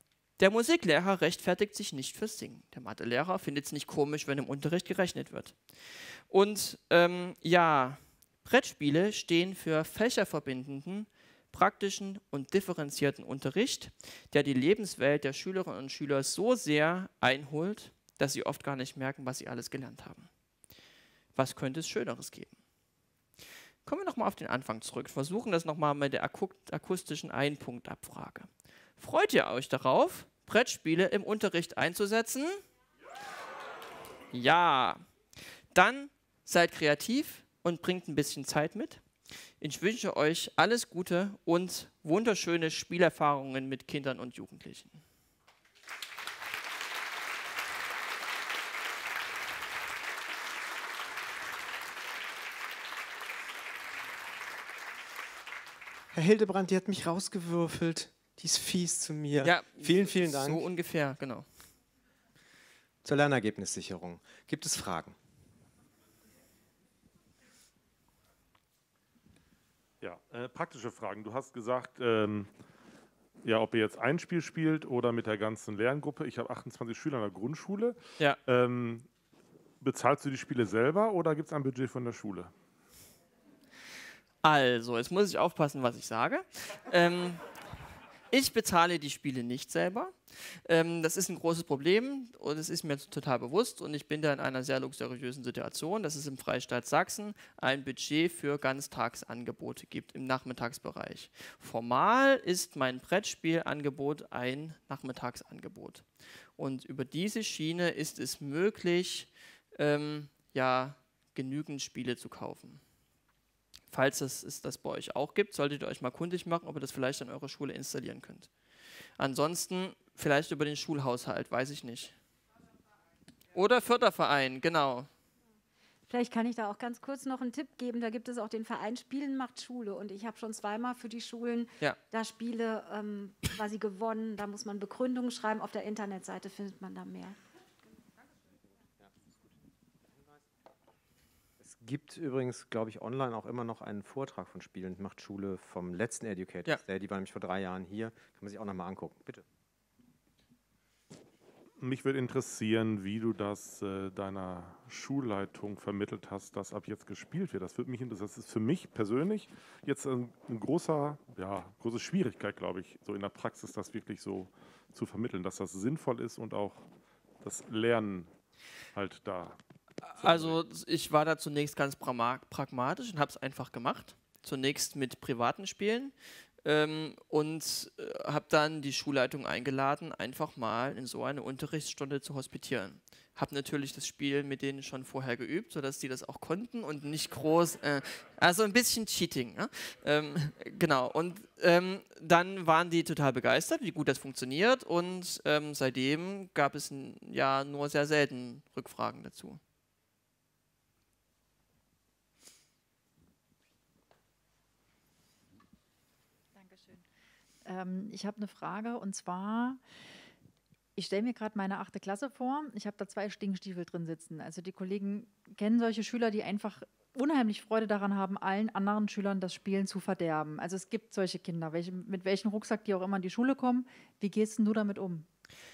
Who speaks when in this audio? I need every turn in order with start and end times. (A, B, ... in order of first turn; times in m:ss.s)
0:00.4-0:20.3 A
0:21.4-0:22.6 A
0:23.8-0:32.6 A
0:34.3-0:35.0 A
0:35.7-0:39.0 A
0:39.6-0:45.0 A
0:56.1-1:00.6 B
0:59.4-1:01.5 A
1:03.0-1:05.2 B
1:10.0-1:12.5 C
1:13.4-1:19.1 C
1:19.8-1:22.5 C
1:24.4-1:27.4 A
1:28.3-1:46.0 A
1:46.6-1:52.8 A
1:53.9-1:58.5 A
1:59.2-2:02.1 A
2:03.5-2:05.1 A
2:06.1-2:17.4 D
2:21.6-2:29.4 B
2:31.8-2:46.8 C
2:47.4-2:48.3 C
2:48.9-2:49.6 C
2:50.1-3:19.6 A
2:50.1-2:50.6 C
3:26.6-3:27.0 E
3:27.6-3:29.8 E
3:31.0-3:45.2 E